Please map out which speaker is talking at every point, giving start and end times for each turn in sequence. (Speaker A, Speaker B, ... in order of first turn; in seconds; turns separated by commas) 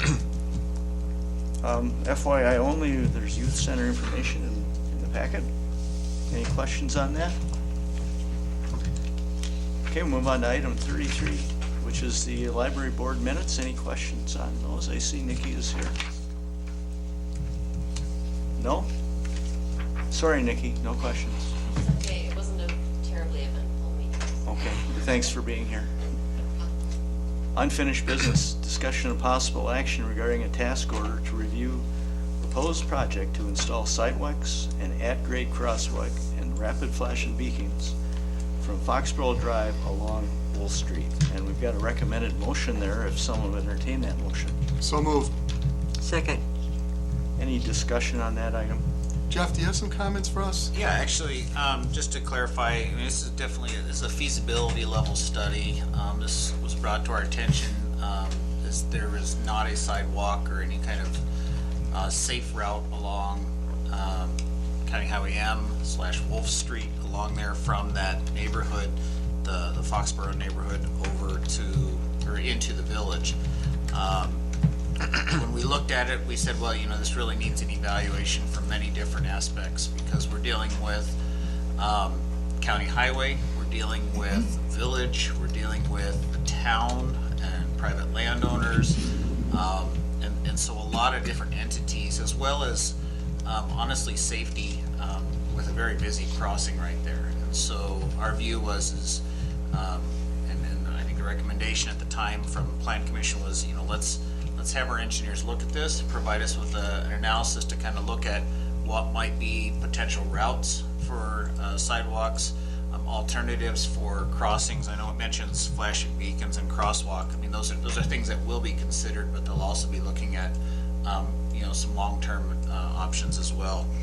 Speaker A: 1.6-5.5, Speaker A: 6.3-7.3, Speaker A: 9.9-15.9, Speaker A: 18.6-18.9, Speaker A: 20.1-21.6, Speaker B: 21.7-24.4, Speaker A: 24.4-25.9, Speaker A: 27.5-31.8, Speaker A: 32.4-37.9, Speaker A: 38.6-44.6, Speaker C: 44.8-45.3, Speaker A: 47.4-48.8, Speaker C: 49.3-50.7, Speaker D: 50.7-61.2, Speaker D: 61.9-73.3, Speaker D: 73.9-74.4, Speaker D: 75.0-81.2, Speaker D: 81.8-89.0, Speaker D: 89.5-99.2, Speaker D: 99.7-123.9